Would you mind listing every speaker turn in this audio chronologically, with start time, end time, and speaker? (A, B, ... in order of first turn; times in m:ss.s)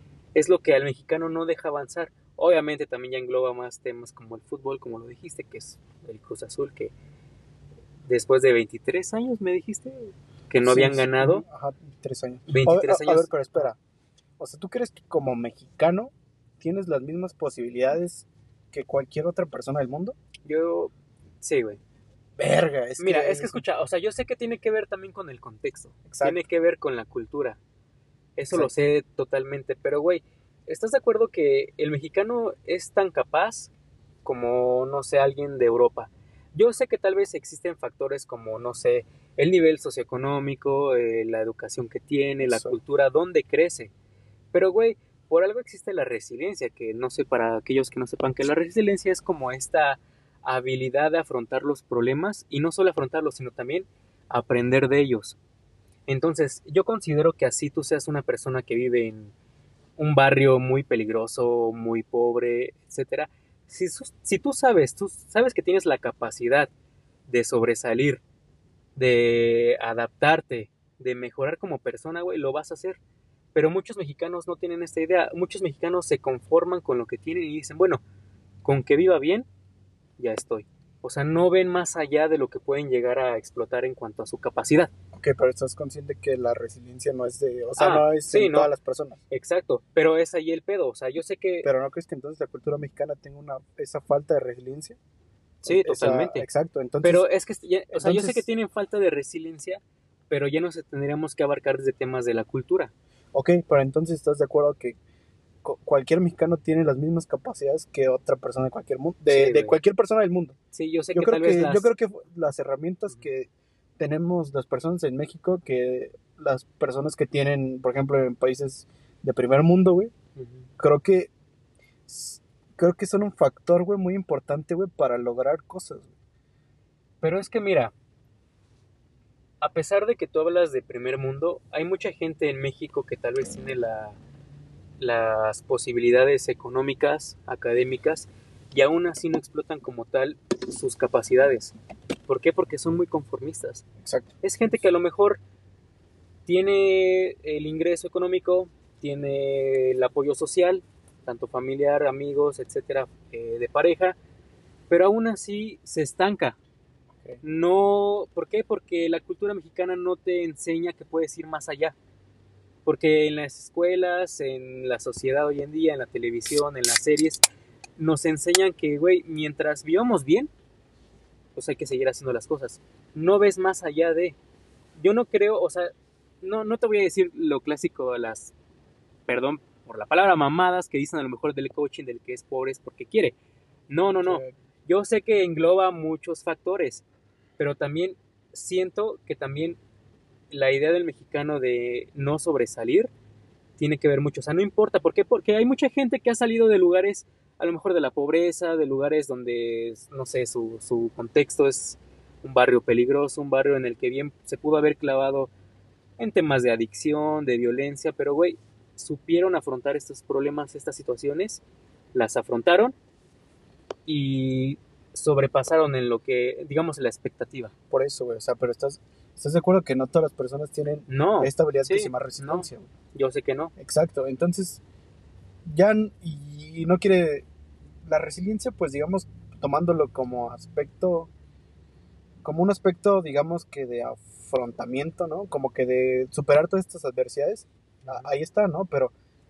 0:00.4-0:06.9 A
0:08.1-0:11.4 A
0:10.6-0:13.8 B
0:12.5-0:13.7 A
0:14.4-0:20.2 B
0:20.5-0:21.8 A
0:22.4-0:23.6 B
0:23.0-0:27.6 A
0:26.1-0:26.4 B
0:28.4-0:33.7 A
0:34.2-0:43.9 A
0:42.4-0:42.8 B
0:44.5-0:55.4 A
0:56.1-0:59.3 A
1:00.0-1:06.7 A
1:07.3-1:08.2 A
1:09.0-1:13.0 A
1:13.6-1:18.0 A
1:18.6-1:19.5 A
1:20.2-1:24.9 A
1:25.1-1:29.2 B
1:27.8-1:28.7 A
1:29.3-1:31.7 A
1:31.6-1:35.0 B
1:35.6-1:36.5 A
1:35.7-1:37.3 B
1:37.0-1:42.9 A
1:37.9-1:38.5 B
1:43.3-1:45.0 B
1:45.6-1:50.6 B
1:49.3-1:49.8 A
1:50.7-1:51.9 A
1:51.1-2:00.1 B
2:00.4-2:00.7 A
2:00.8-2:01.3 B
2:02.1-2:06.2 B
2:07.2-2:07.9 A
2:09.6-2:14.2 A
2:15.0-2:21.7 A
2:22.3-2:23.8 A
2:24.0-2:24.3 B
2:24.4-2:25.4 A
2:26.5-2:34.2 A
2:34.9-2:36.6 A
2:37.4-2:42.0 A
2:42.8-2:47.4 A
2:48.0-2:50.5 A
2:51.6-2:54.4 A
2:55.0-2:58.5 A
2:59.3-3:03.4 A
3:03.9-3:07.0 A
3:04.2-3:04.6 B
3:07.6-3:09.8 A
3:10.5-3:13.1 A
3:13.8-3:25.5 A
3:26.2-3:31.6 A
3:32.1-3:33.0 A
3:34.1-3:37.7 A
3:37.9-3:42.9 B
3:41.1-3:43.7 A
3:43.8-3:44.8 B
3:45.7-3:47.5 B
3:48.0-3:51.3 B
3:52.4-3:59.1 B
3:58.0-3:58.3 A